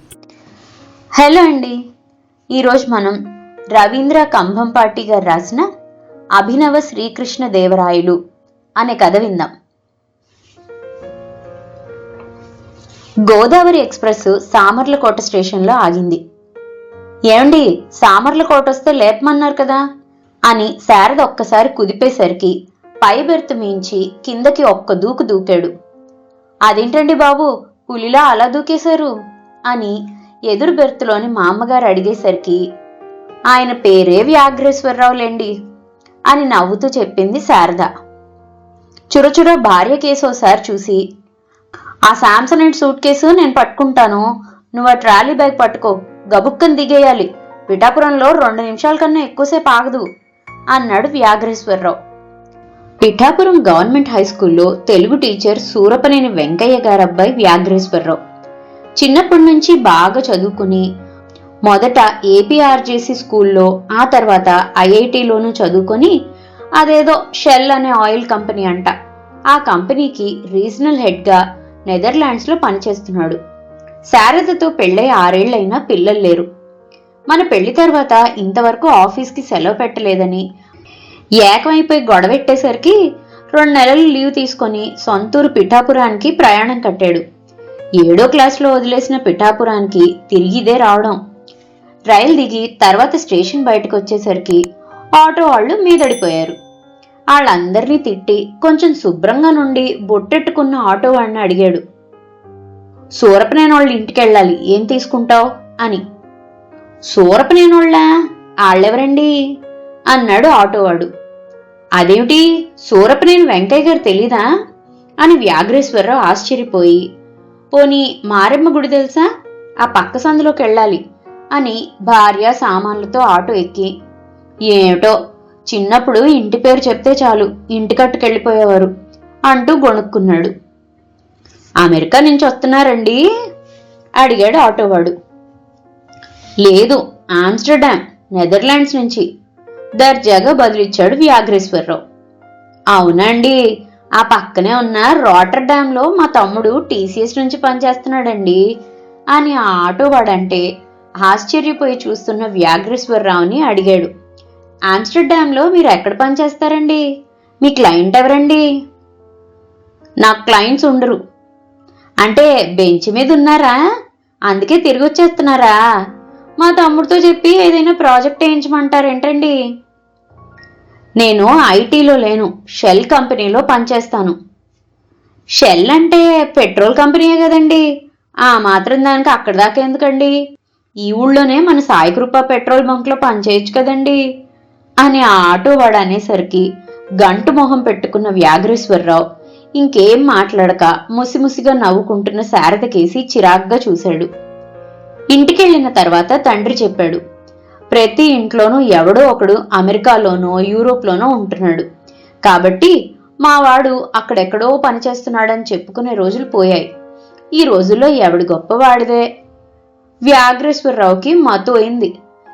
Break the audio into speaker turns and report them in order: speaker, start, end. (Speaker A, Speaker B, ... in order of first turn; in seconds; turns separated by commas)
Speaker A: 1.2-1.8, Speaker A: 2.5-3.2, Speaker A: 3.7-5.6, Speaker A: 6.4-8.2, Speaker A: 8.8-9.5, Speaker A: 13.3-16.2, Speaker A: 17.3-19.8, Speaker A: 20.5-25.7, Speaker A: 26.7-29.1, Speaker A: 29.7-29.9, Speaker A: 30.5-32.6, Speaker A: 33.5-35.5, Speaker A: 36.3-37.9, Speaker A: 39.1-41.0, Speaker A: 42.1-50.0, Speaker A: 50.7-52.0, Speaker A: 53.0-58.2, Speaker A: 59.0-60.8, Speaker A: 61.6-66.1, Speaker A: 66.8-68.9, Speaker A: 69.5-73.4, Speaker A: 74.1-76.5, Speaker A: 77.3-80.4, Speaker A: 81.4-83.0, Speaker A: 83.5-87.2, Speaker A: 88.0-91.2, Speaker A: 92.1-94.6, Speaker A: 95.2-96.6, Speaker A: 97.3-101.8, Speaker A: 103.2-106.0, Speaker A: 107.1-108.0, Speaker A: 108.7-109.3, Speaker A: 110.1-111.1, Speaker A: 112.0-114.5, Speaker A: 115.2-117.0, Speaker A: 117.7-119.3, Speaker A: 119.8-121.0, Speaker A: 121.5-123.9, Speaker A: 124.7-125.1, Speaker A: 125.7-128.9, Speaker A: 129.5-130.5, Speaker A: 131.8-133.2, Speaker A: 134.2-135.1, Speaker A: 136.6-139.2, Speaker A: 140.0-142.0, Speaker A: 142.9-143.6, Speaker A: 144.2-148.6, Speaker A: 149.3-150.6, Speaker A: 151.2-154.1, Speaker A: 154.9-157.0, Speaker A: 157.6-158.6, Speaker A: 160.2-161.2, Speaker A: 162.2-163.8, Speaker A: 164.5-165.8, Speaker A: 166.6-169.5, Speaker A: 171.2-174.3, Speaker A: 175.6-177.8, Speaker A: 178.4-180.3, Speaker A: 181.0-184.2, Speaker A: 185.0-186.7, Speaker A: 187.2-189.2, Speaker A: 189.8-194.3, Speaker A: 195.3-197.2, Speaker A: 197.9-201.8, Speaker A: 202.4-206.9, Speaker A: 207.6-209.2, Speaker A: 210.3-212.1